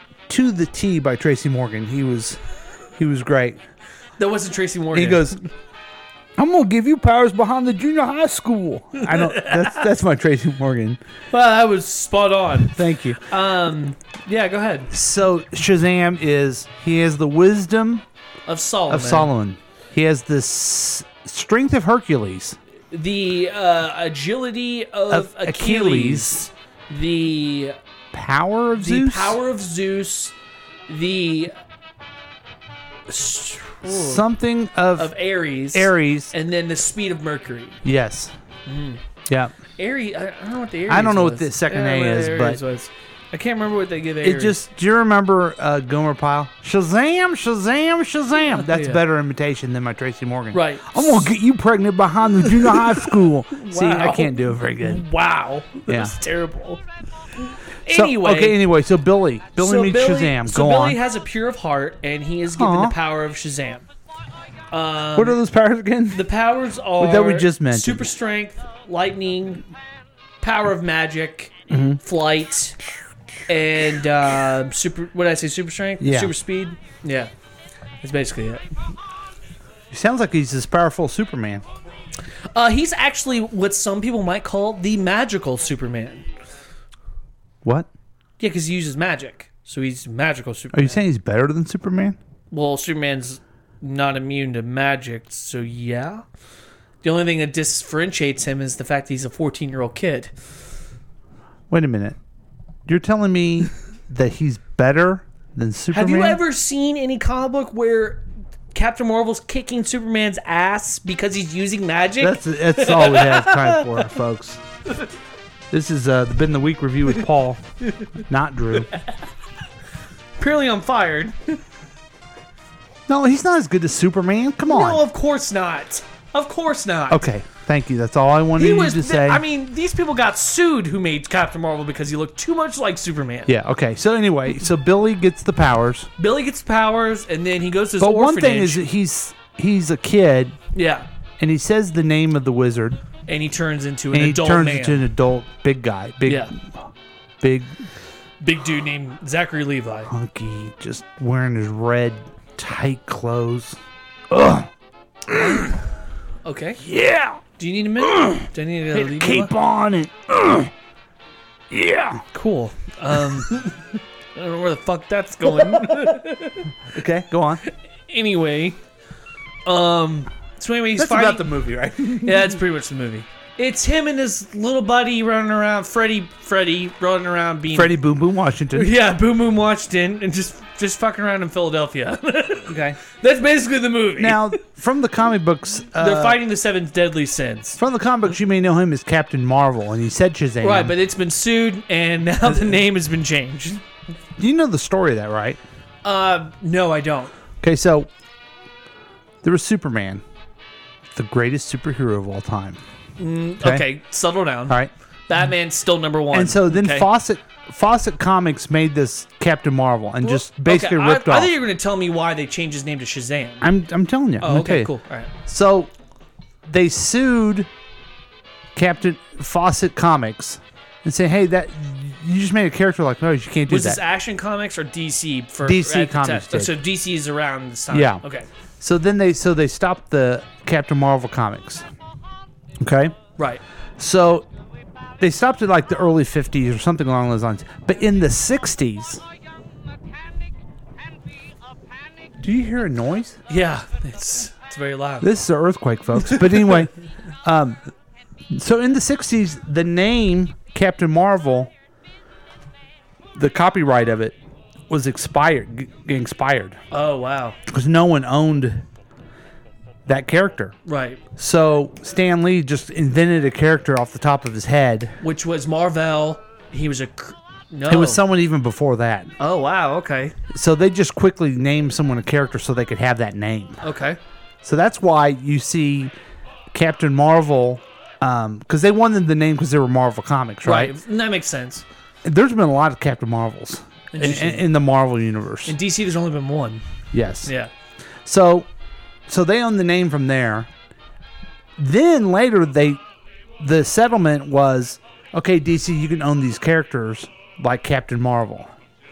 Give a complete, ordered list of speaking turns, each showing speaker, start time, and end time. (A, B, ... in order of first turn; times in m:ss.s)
0:00.3-0:02.4 A
0:03.0-0:03.6 A
0:04.2-0:05.4 B
0:04.9-0:05.4 A
0:06.4-0:11.0 A
0:09.0-0:09.8 B
0:11.3-0:14.9 B
0:12.6-0:13.2 A
0:14.9-0:18.0 A
0:18.5-0:19.3 B
0:18.9-0:22.6 A
0:22.9-0:27.8 B
0:25.1-0:26.5 A
0:28.1-0:29.4 A
0:28.8-0:30.3 B
0:30.9-0:31.5 B
0:33.1-0:34.2 B
0:33.8-0:35.1 A
0:35.0-0:37.8 B
0:35.7-0:36.3 A
0:37.8-0:38.3 A
0:38.6-0:39.0 B
0:39.3-0:39.5 A
0:39.8-0:44.6 B
0:40.9-0:42.6 A
0:44.2-0:55.0 A
0:48.5-0:49.0 B
0:50.5-0:51.3 B
0:52.6-0:56.8 B
0:55.9-0:56.1 A
0:57.5-0:58.6 B
0:57.9-1:01.0 A
0:59.6-1:03.8 B
1:02.5-1:03.0 A
1:04.7-1:05.4 B
1:05.1-1:06.2 A
1:06.1-1:09.6 B
1:07.0-1:08.1 A
1:10.4-1:12.8 B
1:11.7-1:12.0 A
1:13.5-1:17.3 B
1:16.0-1:16.3 A
1:18.0-1:18.6 B
1:19.9-1:21.6 A
1:22.5-1:26.3 B
1:27.6-1:27.9 A
1:28.4-1:31.0 B
1:30.7-1:32.2 A
1:32.5-1:36.2 B
1:37.0-1:40.3 B
1:41.7-1:42.2 A
1:42.8-1:46.4 A
1:45.9-1:54.1 B
1:52.2-1:54.6 A
1:55.7-1:57.6 A
1:58.2-1:58.9 A
2:00.4-2:01.6 B
2:03.1-2:05.0 A
2:04.7-2:07.2 B
2:07.1-2:09.4 A
2:08.6-2:13.5 B
2:13.5-2:16.1 A
2:16.2-2:18.8 B
2:18.0-2:20.6 A
2:20.7-2:21.1 B
2:21.4-2:23.0 A
2:23.3-2:25.0 B
2:24.1-2:26.9 A
2:26.2-2:26.5 B
2:27.4-2:27.8 A
2:28.4-2:30.1 B
2:30.1-2:34.7 A
2:35.3-2:35.8 A
2:35.3-2:35.7 B
2:36.4-2:36.8 B
2:36.8-2:37.4 A
2:37.6-2:39.5 B
2:38.0-2:40.7 A
2:41.7-2:42.2 A
2:42.3-2:43.8 B
2:44.3-2:46.7 B
2:46.9-2:47.6 A
2:48.1-2:48.8 B
2:49.6-2:51.5 B
2:51.0-2:52.6 A
2:52.2-2:58.0 B
2:57.7-2:58.9 A
2:58.7-3:04.6 B
3:02.7-3:03.0 A
3:04.2-3:06.4 A
3:06.0-3:07.8 B
3:07.8-3:10.9 A
3:10.6-3:13.8 B
3:14.4-3:15.6 A
3:16.0-3:17.3 B
3:17.6-3:18.1 A
3:19.4-3:20.2 A
3:21.1-3:22.8 A
3:23.2-3:27.1 B
3:23.6-3:23.8 A
3:26.3-3:31.5 A
3:30.2-3:33.6 B
3:33.6-3:34.9 A
3:34.4-3:35.3 B
3:35.4-3:35.9 A
3:36.6-3:37.7 A
3:38.7-3:44.0 A
3:43.7-3:48.5 B
3:45.6-3:46.8 A
3:47.9-3:48.2 A
3:48.8-3:51.9 A
3:52.8-3:53.2 A
3:53.4-3:53.6 B
3:54.0-3:54.5 A
3:55.2-3:59.2 A
4:02.4-4:03.4 A
4:03.5-4:05.3 B
4:05.2-4:06.9 A
4:06.3-4:06.8 B
4:07.4-4:07.8 A
4:08.5-4:11.7 A
4:13.3-4:14.4 A
4:14.9-4:16.8 A
4:16.9-4:17.6 B
4:17.7-4:18.8 A
4:20.0-4:20.8 A
4:20.8-4:21.2 B
4:21.4-4:25.2 A
4:25.2-4:28.2 B
4:27.9-4:29.3 A
4:29.4-4:30.4 B
4:30.5-4:33.8 A
4:33.8-4:34.2 B
4:34.6-4:36.1 A
4:36.7-4:40.9 A
4:40.6-4:41.8 B
4:42.2-4:45.8 A
4:44.1-4:44.6 B
4:45.6-4:46.8 B
4:47.1-4:47.5 A
4:47.4-4:47.7 B
4:48.2-4:48.7 A
4:49.3-4:50.7 A
4:51.8-4:53.0 A
4:53.6-4:58.7 A